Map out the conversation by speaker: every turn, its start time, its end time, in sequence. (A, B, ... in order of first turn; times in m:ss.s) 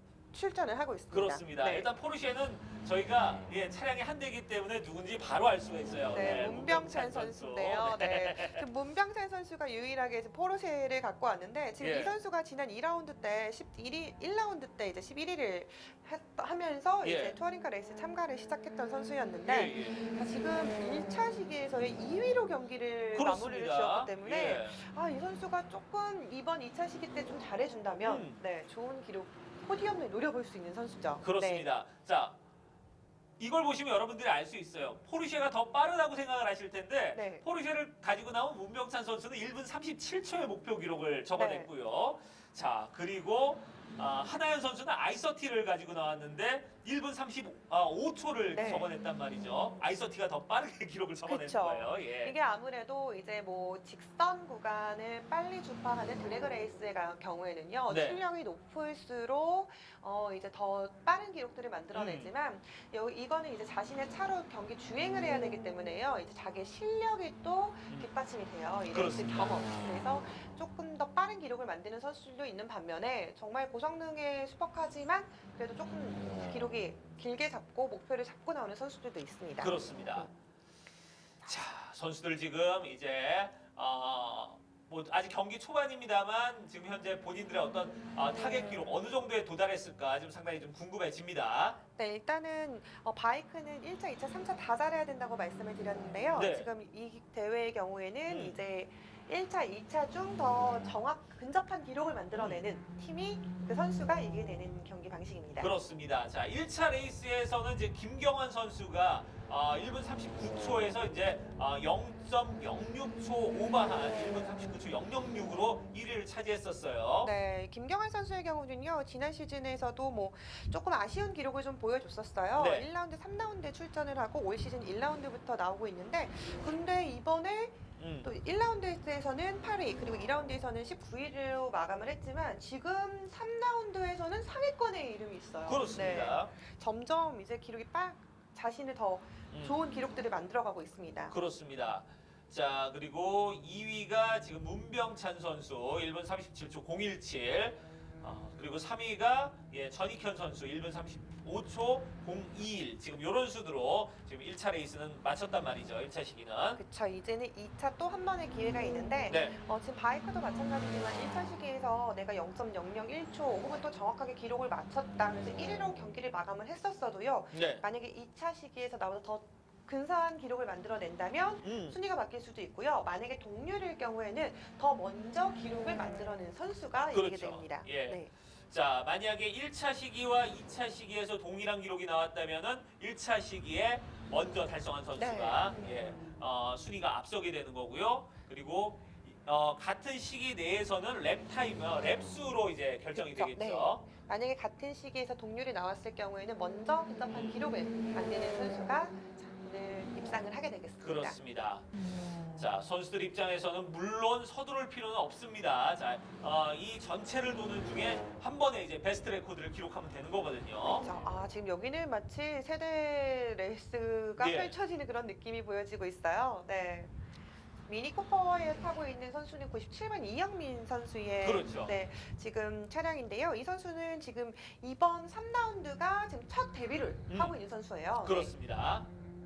0:00.3-0:01.9 A
0:01.1-0:08.6 B
0:06.1-0:31.7 A
0:11.8-0:12.1 B
0:17.0-0:17.4 B
0:19.5-0:20.1 B
0:23.1-0:24.8 B
0:28.0-0:28.4 B
0:31.2-0:32.4 B
0:33.4-0:52.3 B
0:37.1-0:37.5 A
0:41.3-0:41.7 A
0:48.5-0:48.9 A
0:51.2-1:20.2 A
0:57.9-0:58.2 B
1:01.9-1:02.3 B
1:08.9-1:09.6 B
1:19.6-1:20.3 B
1:21.4-1:31.8 B
1:32.0-1:45.7 A
1:36.4-1:36.7 B
1:38.3-1:38.6 B
1:42.3-1:42.6 B
1:45.6-1:57.3 B
1:57.2-2:21.4 A
2:02.6-2:02.9 B
2:08.0-2:08.3 B
2:15.7-2:16.5 B
2:19.5-2:19.8 B
2:21.3-2:36.8 B
2:36.8-2:58.3 A
2:39.3-2:39.6 B
2:47.5-2:47.8 B
2:51.6-2:52.0 B
2:57.1-3:14.0 B
3:05.2-3:06.0 A
3:13.1-3:21.4 A
3:17.3-3:17.7 B
3:21.0-3:21.9 B
3:22.5-3:31.1 B
3:31.0-3:37.1 A
3:34.4-3:34.7 B
3:37.9-3:48.5 A
3:41.4-3:41.9 B
3:47.3-3:47.6 B
3:48.2-3:49.1 B